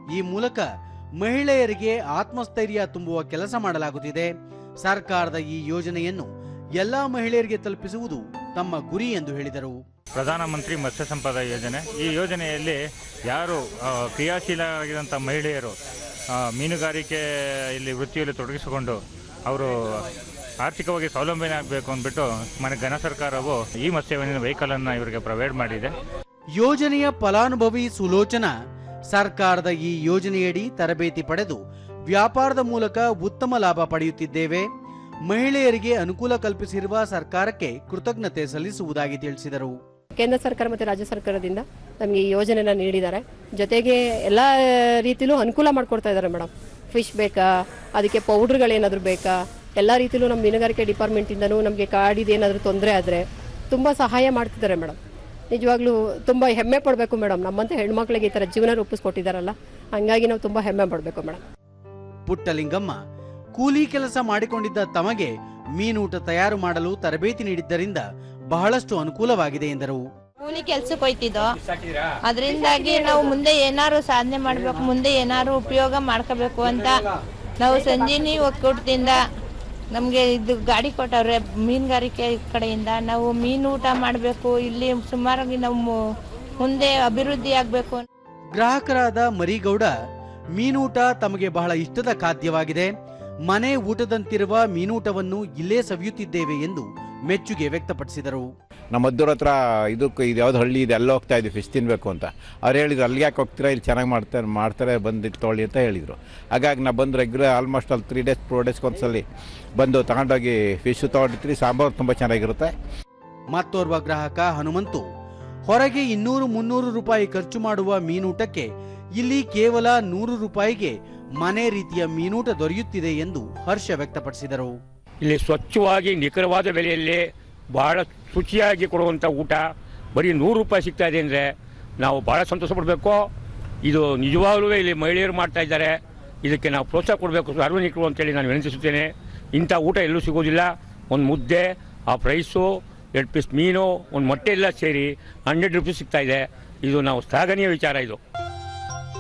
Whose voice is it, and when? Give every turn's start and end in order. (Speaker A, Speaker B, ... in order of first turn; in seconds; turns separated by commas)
Speaker A: 0.1-9.8, Speaker B: 10.2-15.8, Speaker B: 16.4-19.7, Speaker B: 20.6-25.9, Speaker A: 26.6-28.5, Speaker A: 29.1-34.7, Speaker A: 35.3-39.8, Speaker C: 40.2-55.0, Speaker C: 55.5-61.4, Speaker A: 62.3-63.0, Speaker A: 63.5-70.0, Speaker D: 70.4-71.5, Speaker D: 72.3-77.0, Speaker D: 77.6-79.2, Speaker D: 79.9-85.9, Speaker D: 86.6-88.0, Speaker A: 88.5-89.9, Speaker A: 90.6-92.9, Speaker A: 93.5-98.5, Speaker E: 98.9-109.2, Speaker E: 109.8-112.7, Speaker A: 113.5-115.0, Speaker A: 115.7-124.8, Speaker F: 125.2-129.6, Speaker F: 130.2-133.3, Speaker F: 133.8-148.2